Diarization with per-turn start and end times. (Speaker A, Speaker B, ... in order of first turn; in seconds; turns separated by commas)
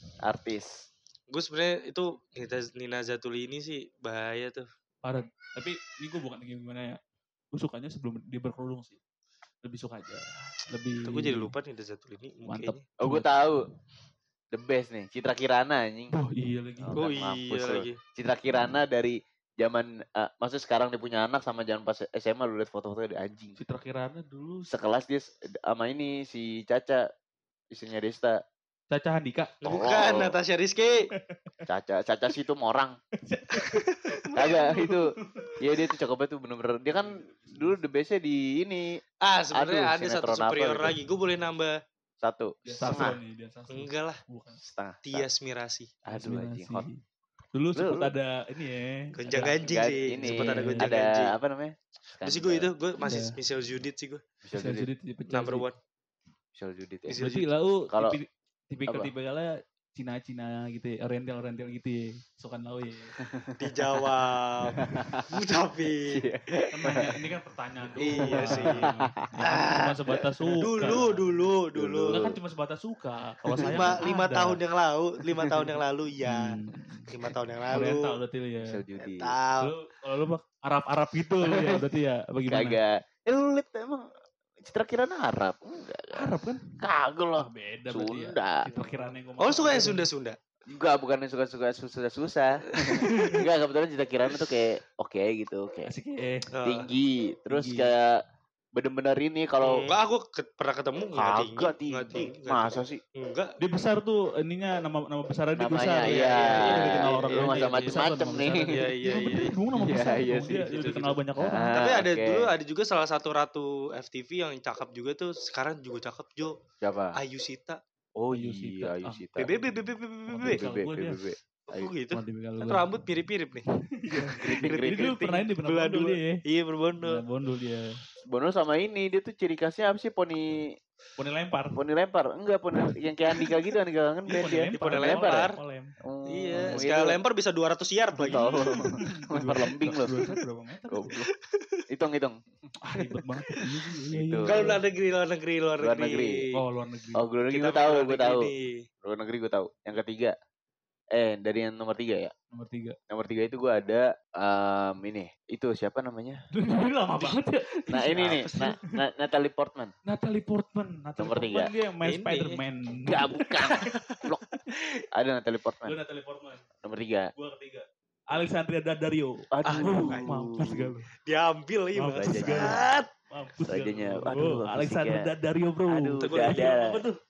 Speaker A: 0.2-0.8, Speaker B: 1.3-4.7, Speaker C: 5.0-7.0, Speaker C: 7.5-9.0, Speaker C: 9.7-11.5, Speaker B: 11.1-12.8, Speaker C: 12.5-13.3, Speaker A: 13.0-13.7, Speaker A: 14.5-16.1, Speaker C: 16.1-17.0, Speaker A: 16.8-23.6, Speaker B: 17.0-18.0, Speaker C: 23.6-24.7, Speaker A: 24.7-27.1, Speaker A: 27.7-28.4, Speaker C: 28.9-29.5, Speaker B: 29.6-31.1, Speaker A: 29.6-30.4, Speaker A: 31.7-33.0, Speaker C: 33.2-35.6, Speaker B: 33.6-34.0, Speaker A: 34.3-39.0, Speaker C: 37.5-37.7, Speaker B: 39.2-41.8, Speaker A: 39.5-41.0, Speaker A: 42.2-43.2, Speaker C: 42.7-44.6, Speaker B: 42.8-43.1, Speaker B: 43.7-44.2, Speaker A: 44.6-45.3, Speaker B: 45.0-45.9, Speaker A: 46.0-46.9, Speaker C: 46.1-47.0, Speaker C: 47.5-49.6, Speaker A: 47.8-48.1, Speaker B: 49.2-51.3, Speaker A: 49.6-52.7, Speaker C: 50.2-50.9, Speaker B: 52.2-54.2, Speaker C: 53.0-53.4, Speaker A: 54.4-54.9, Speaker C: 54.5-55.7, Speaker B: 55.3-55.8, Speaker A: 56.5-57.2, Speaker B: 57.1-57.5, Speaker C: 57.2-63.1, Speaker A: 57.9-58.2, Speaker A: 63.2-64.1, Speaker B: 63.6-66.2, Speaker A: 64.8-65.3, Speaker A: 66.1-67.2, Speaker C: 66.7-71.1, Speaker B: 68.0-69.0, Speaker A: 68.2-69.0, Speaker B: 69.5-70.0, Speaker A: 70.1-71.1, Speaker B: 70.6-72.2, Speaker A: 71.7-72.4, Speaker C: 72.1-74.6, Speaker A: 73.5-74.1, Speaker B: 73.6-76.6, Speaker A: 75.4-75.8, Speaker C: 76.3-77.1, Speaker B: 77.1-78.2, Speaker C: 77.7-78.7, Speaker A: 78.6-79.3, Speaker B: 79.0-79.7, Speaker C: 79.6-82.8, Speaker A: 81.5-81.8, Speaker A: 82.5-84.1, Speaker A: 84.6-88.7, Speaker C: 86.1-86.6, Speaker C: 87.4-90.1, Speaker B: 88.8-90.4, Speaker A: 90.7-95.9, Speaker C: 92.9-93.4, Speaker C: 95.9-96.5, Speaker B: 96.5-96.9, Speaker A: 96.6-98.2, Speaker C: 97.5-97.9, Speaker A: 98.8-99.8, Speaker B: 99.6-103.6, Speaker A: 101.2-103.0, Speaker C: 103.6-111.7, Speaker A: 105.6-108.7, Speaker B: 106.0-108.0, Speaker B: 108.6-109.5, Speaker A: 109.7-110.8, Speaker B: 110.7-111.2, Speaker A: 111.4-112.5, Speaker B: 111.7-116.5, Speaker A: 116.8-117.2, Speaker B: 117.2-117.8, Speaker A: 118.2-119.5, Speaker C: 118.3-119.7, Speaker B: 119.4-120.6, Speaker C: 120.3-121.2, Speaker A: 120.4-121.9, Speaker B: 121.7-123.6, Speaker C: 122.1-122.9, Speaker C: 124.0-126.4, Speaker A: 124.3-125.2, Speaker B: 124.6-127.2, Speaker C: 127.0-127.9, Speaker A: 128.3-130.8, Speaker C: 131.2-131.8, Speaker A: 131.8-135.5, Speaker C: 134.3-135.9, Speaker B: 134.8-135.6, Speaker A: 136.0-137.2, Speaker B: 136.3-138.6, Speaker A: 138.2-140.2, Speaker C: 138.3-141.1, Speaker A: 140.9-141.3, Speaker B: 141.2-141.8, Speaker A: 141.9-142.4, Speaker C: 142.8-144.8, Speaker A: 144.1-144.8, Speaker B: 144.5-146.5, Speaker A: 145.8-146.4, Speaker C: 146.6-147.2, Speaker A: 147.2-148.5, Speaker B: 147.5-148.7, Speaker A: 149.0-150.3, Speaker A: 151.1-152.3, Speaker C: 152.5-153.0, Speaker A: 153.1-156.4, Speaker C: 156.5-158.7, Speaker A: 157.9-159.9, Speaker B: 158.2-158.7, Speaker C: 160.1-163.8, Speaker A: 161.2-161.7, Speaker B: 162.0-162.6, Speaker A: 163.1-164.4, Speaker B: 164.7-165.0, Speaker A: 165.1-166.0, Speaker C: 165.8-166.7, Speaker A: 166.8-167.3, Speaker C: 167.4-171.1, Speaker A: 169.5-170.9, Speaker B: 169.7-170.4, Speaker B: 171.3-173.1, Speaker C: 172.0-177.2, Speaker A: 172.2-172.9, Speaker A: 173.7-175.3, Speaker A: 175.9-177.0, Speaker B: 176.2-176.7